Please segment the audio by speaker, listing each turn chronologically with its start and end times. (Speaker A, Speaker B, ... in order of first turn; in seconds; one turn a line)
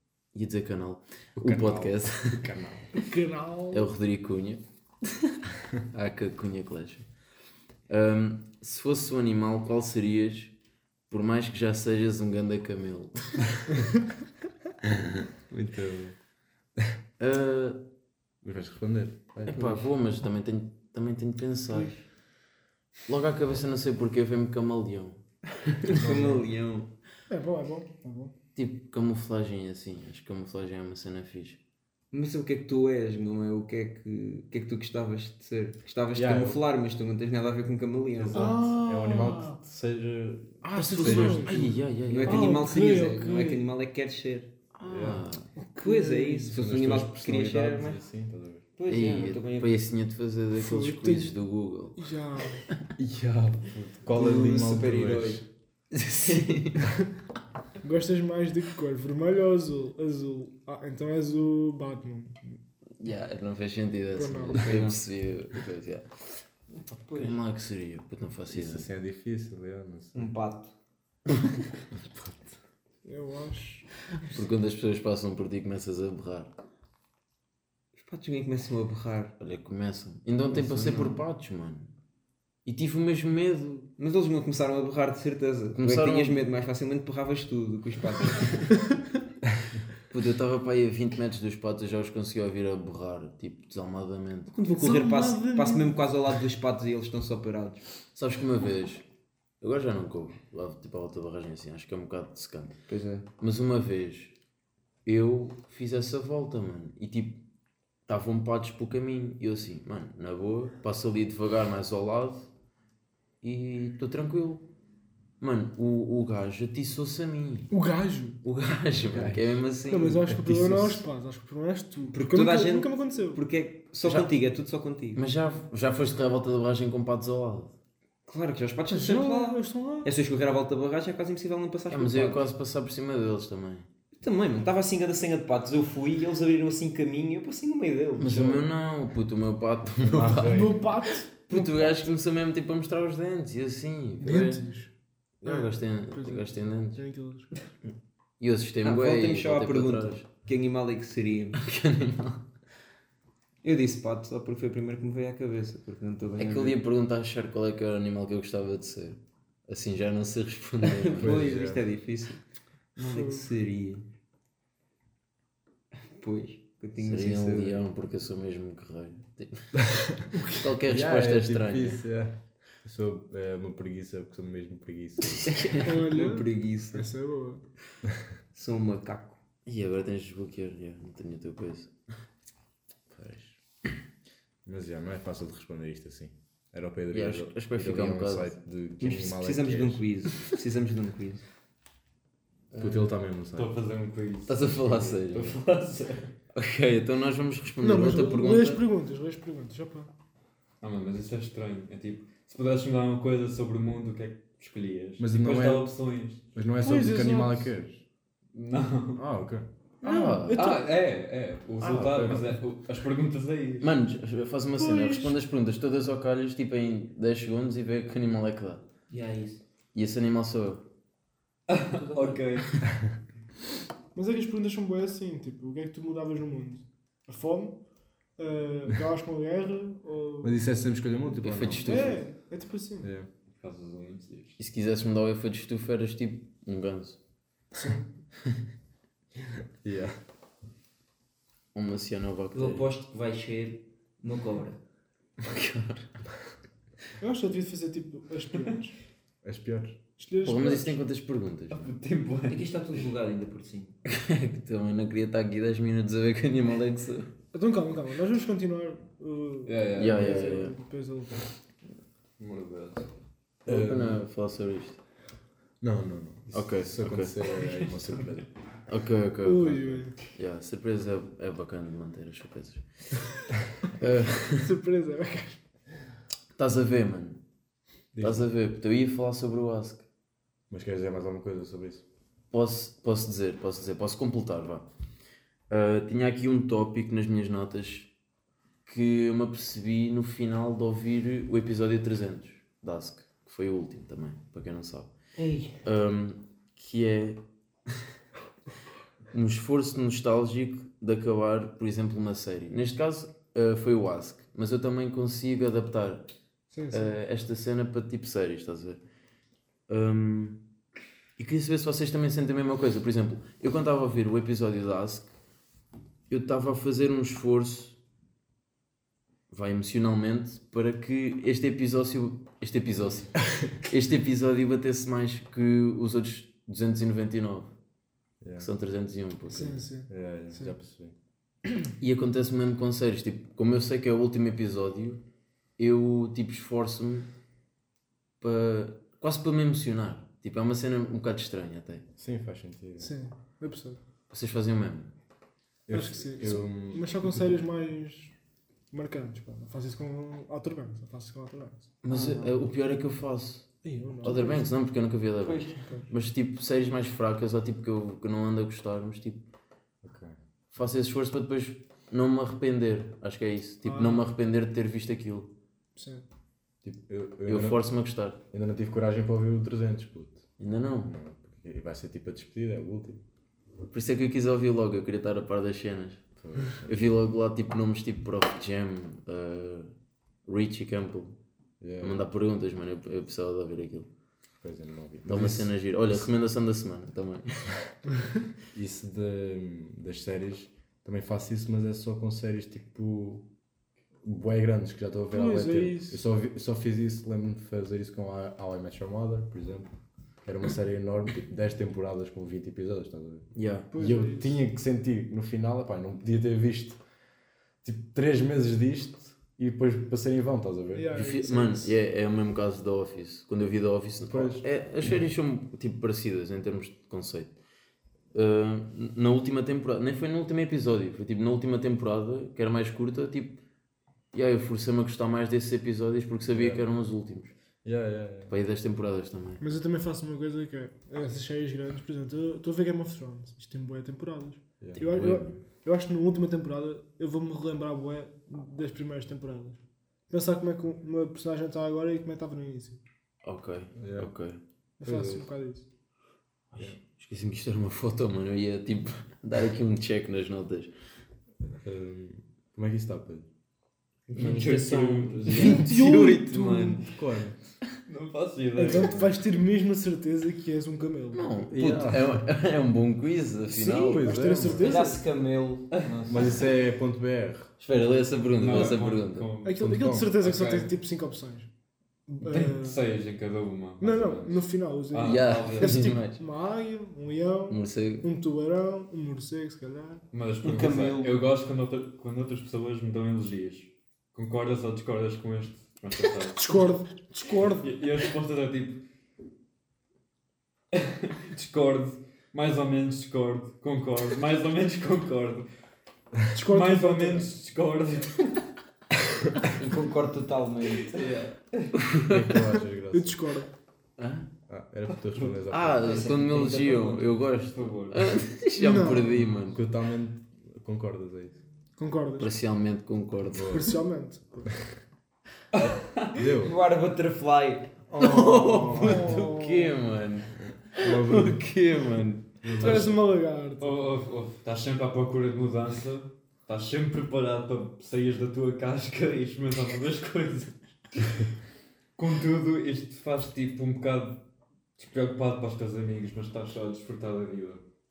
Speaker A: 0.3-2.5
Speaker B: 1.4-2.9
Speaker C: 2.9-3.9
Speaker A: 3.7-4.6
Speaker A: 5.9-7.1
Speaker A: 7.9-10.5
Speaker A: 11.1-13.6
Speaker B: 15.5-16.1
Speaker A: 17.2-17.8
Speaker B: 18.4-19.9
Speaker A: 19.5-22.0
Speaker A: 23.1-25.2
Speaker D: 25.8-26.9
Speaker A: 25.9-26.3
Speaker B: 25.9-26.4
Speaker C: 27.3-28.3
Speaker A: 28.6-31.6
Speaker D: 32.1-38.6
Speaker B: 36.1-36.6
Speaker B: 38.2-41.8
Speaker C: 38.3-39.6
Speaker C: 40.7-43.7
Speaker A: 40.9-42.5
Speaker D: 42.1-44.5
Speaker A: 44.7-45.5
Speaker B: 44.8-45.3
Speaker C: 45.6-46.5
Speaker D: 45.8-48.0
Speaker B: 46.3-48.7
Speaker D: 48.8-49.8
Speaker A: 48.9-52.1
Speaker C: 50.5-51.4
Speaker C: 52.0-52.6
Speaker B: 53.0-55.5
Speaker D: 54.1-55.4
Speaker A: 56.0-56.8
Speaker D: 56.1-56.7
Speaker C: 57.8-62.6
Speaker A: 63.0-66.1
Speaker C: 64.1-64.8
Speaker D: 64.5-65.0
Speaker D: 66.9-67.4
Speaker A: 67.2-68.9
Speaker B: 68.5-70.3
Speaker D: 70.1-70.7
Speaker C: 73.0-73.9
Speaker A: 74.3-76.5
Speaker D: 78.0-79.3
Speaker A: 79.4-81.9
Speaker D: 80.5-81.2
Speaker A: 82.7-83.9
Speaker D: 84.0-88.8
Speaker A: 85.8-86.4
Speaker A: 90.1-94.5
Speaker D: 94.5-97.8
Speaker C: 94.7-96.0
Speaker A: 98.1-99.0
Speaker A: 99.6-102.7
Speaker D: 102.9-103.3
Speaker A: 103.4-104.3
Speaker A: 105.0-107.4
Speaker A: 108.1-112.5
Speaker A: 113.4-114.7
Speaker A: 115.4-117.7
Speaker C: 117.7-118.4
Speaker A: 118.4-120.3
Speaker B: 119.0-119.6
Speaker C: 119.9-123.4
Speaker B: 120.3-121.0
Speaker D: 122.1-125.2
Speaker A: 125.2-127.7
Speaker D: 128.3-132.4
Speaker C: 128.9-130.1
Speaker A: 131.9-133.9
Speaker D: 134.2-138.7
Speaker A: 138.2-140.8
Speaker B: 140.0-140.9
Speaker C: 140.4-142.0
Speaker A: 141.4-144.6
Speaker C: 144.2-144.9
Speaker A: 145.4-147.0
Speaker C: 145.4-147.6
Speaker A: 148.4-150.2
Speaker D: 148.8-151.6
Speaker A: 151.6-152.5
Speaker D: 153.6-156.8
Speaker A: 156.4-161.5
Speaker D: 160.8-162.4
Speaker B: 161.2-161.8
Speaker D: 163.0-164.1
Speaker C: 163.0-163.5
Speaker D: 166.1-167.9
Speaker A: 167.0-169.8
Speaker B: 169.8-170.2
Speaker C: 170.3-170.6
Speaker A: 170.4-172.0
Speaker B: 170.8-175.7
Speaker D: 175.6-177.1
Speaker C: 175.8-177.6
Speaker D: 178.5-179.4
Speaker A: 179.7-181.9
Speaker B: 183.1-183.6
Speaker B: 184.7-190.0
Speaker A: 187.1-188.5
Speaker D: 189.0-191.4
Speaker B: 192.8-193.7
Speaker E: 193.5-196.3
Speaker A: 194.5-195.6
Speaker A: 196.5-198.8
Speaker C: 197.8-200.1
Speaker E: 200.8-206.4
Speaker B: 205.2-205.9
Speaker B: 206.6-208.0
Speaker C: 206.8-207.7
Speaker E: 208.5-209.2
Speaker B: 209.2-209.7
Speaker A: 210.0-210.7
Speaker C: 210.0-210.9
Speaker E: 210.5-213.9
Speaker A: 211.8-212.5
Speaker A: 213.8-218.9
Speaker C: 214.9-215.2
Speaker D: 219.1-219.6
Speaker A: 219.9-220.8
Speaker E: 221.7-222.8
Speaker D: 222.0-222.4
Speaker C: 224.1-227.8
Speaker C: 228.4-230.6
Speaker B: 230.4-232.1
Speaker A: 231.4-232.2
Speaker C: 231.8-233.1
Speaker B: 233.0-233.3
Speaker E: 233.6-234.6
Speaker A: 234.6-237.2
Speaker C: 237.8-238.1
Speaker B: 239.8-240.2
Speaker A: 241.7-242.9
Speaker D: 242.5-244.8
Speaker A: 245.4-246.1
Speaker C: 247.2-249.0
Speaker B: 249.4-250.0
Speaker C: 250.2-251.0
Speaker A: 250.4-251.9
Speaker E: 251.7-252.7
Speaker D: 252.5-253.9
Speaker A: 254.1-257.3
Speaker C: 257.5-261.5
Speaker E: 259.7-260.4
Speaker A: 260.0-260.8
Speaker E: 262.4-263.1
Speaker B: 262.4-262.9
Speaker B: 263.6-264.2
Speaker A: 263.6-265.0
Speaker B: 265.8-268.5
Speaker A: 266.5-267.3
Speaker E: 267.6-268.1
Speaker A: 268.9-273.2
Speaker C: 269.4-270.2
Speaker A: 273.9-274.7
Speaker C: 274.5-275.6
Speaker A: 276.6-277.4
Speaker B: 278.1-278.5
Speaker A: 278.2-280.1
Speaker B: 280.7-282.0
Speaker A: 282.5-284.9
Speaker A: 285.7-288.1
Speaker A: 288.9-295.1
Speaker D: 295.4-295.8
Speaker A: 295.8-297.4
Speaker A: 299.3-306.3
Speaker C: 306.7-307.1
Speaker A: 306.9-309.0
Speaker A: 309.9-310.6
Speaker A: 311.4-315.3
Speaker A: 316.3-318.0
Speaker A: 319.5-327.7
Speaker B: 328.4-328.7
Speaker A: 328.6-329.9
Speaker C: 329.5-330.8
Speaker B: 330.1-331.1
Speaker A: 332.0-335.2
Speaker A: 335.8-337.3
Speaker A: 338.4-342.1
Speaker B: 342.2-343.1
Speaker C: 343.0-344.0
Speaker A: 344.3-345.1
Speaker B: 345.9-347.6
Speaker C: 345.9-348.3
Speaker C: 348.9-352.0
Speaker A: 352.0-353.7
Speaker D: 352.1-352.5
Speaker C: 353.8-354.7
Speaker A: 354.2-359.4
Speaker D: 355.4-355.9
Speaker C: 355.8-356.1
Speaker B: 360.0-360.4
Speaker A: 360.7-365.5
Speaker C: 363.8-364.3
Speaker C: 365.9-366.3
Speaker B: 366.8-367.8
Speaker A: 367.5-368.4
Speaker B: 368.5-370.4
Speaker A: 370.6-371.1
Speaker B: 371.1-373.2
Speaker A: 373.9-376.2
Speaker B: 376.4-377.0
Speaker A: 376.8-379.9
Speaker A: 380.5-381.4
Speaker B: 381.8-382.3
Speaker A: 382.0-384.1
Speaker B: 384.6-386.3
Speaker A: 385.2-387.8
Speaker B: 388.7-393.5
Speaker B: 394.2-399.9
Speaker C: 395.3-396.2
Speaker B: 400.4-407.0
Speaker A: 403.6-403.9
Speaker C: 403.9-404.6
Speaker B: 407.8-411.1
Speaker C: 410.9-411.9
Speaker A: 411.1-417.6
Speaker B: 414.2-414.6
Speaker A: 418.3-423.6
Speaker A: 424.3-427.5
Speaker B: 426.5-426.9
Speaker B: 427.8-428.6
Speaker A: 428.5-429.6
Speaker C: 429.6-443.0
Speaker B: 434.8-435.4
Speaker A: 435.0-435.5
Speaker A: 443.4-444.6
Speaker B: 444.0-444.3
Speaker C: 445.0-445.9
Speaker B: 445.0-445.5
Speaker A: 446.7-450.9
Speaker B: 451.8-453.5
Speaker D: 454.3-455.9
Speaker E: 454.4-455.6
Speaker A: 455.4-457.1
Speaker C: 455.5-457.1
Speaker B: 457.1-457.6
Speaker E: 458.1-459.4
Speaker C: 458.8-461.5
Speaker A: 461.3-464.4
Speaker B: 461.7-462.4
Speaker C: 463.7-465.2
Speaker B: 463.9-465.0
Speaker D: 464.8-466.0
Speaker E: 466.0-466.6
Speaker B: 466.3-467.7
Speaker A: 467.8-469.5
Speaker E: 468.6-470.9
Speaker C: 469.6-471.7
Speaker B: 469.8-470.5
Speaker C: 472.3-473.0
Speaker E: 472.4-476.1
Speaker C: 474.0-480.2
Speaker A: 475.2-476.4
Speaker A: 477.7-478.3
Speaker E: 480.3-486.9
Speaker D: 480.6-481.4
Speaker C: 486.6-487.9
Speaker E: 487.6-489.0
Speaker E: 490.9-495.7
Speaker C: 496.5-497.5
Speaker E: 496.5-498.7
Speaker D: 499.7-501.2
Speaker E: 501.1-502.0
Speaker A: 501.9-502.7
Speaker B: 502.3-503.4
Speaker C: 503.1-503.7
Speaker A: 504.2-504.5
Speaker B: 504.7-506.3
Speaker A: 505.7-509.8
Speaker D: 506.0-507.3
Speaker E: 506.6-508.4
Speaker C: 508.8-509.5
Speaker B: 509.7-511.6
Speaker C: 512.0-512.5
Speaker A: 512.4-513.9
Speaker B: 513.5-513.9
Speaker C: 513.7-514.8
Speaker E: 515.7-516.4
Speaker B: 516.4-516.8
Speaker D: 516.6-518.0
Speaker B: 518.1-519.3
Speaker A: 518.2-523.0
Speaker C: 518.8-520.0
Speaker B: 521.0-521.6
Speaker B: 522.6-523.2
Speaker C: 522.8-524.0
Speaker E: 523.8-531.5
Speaker E: 532.2-534.4
Speaker E: 535.0-537.8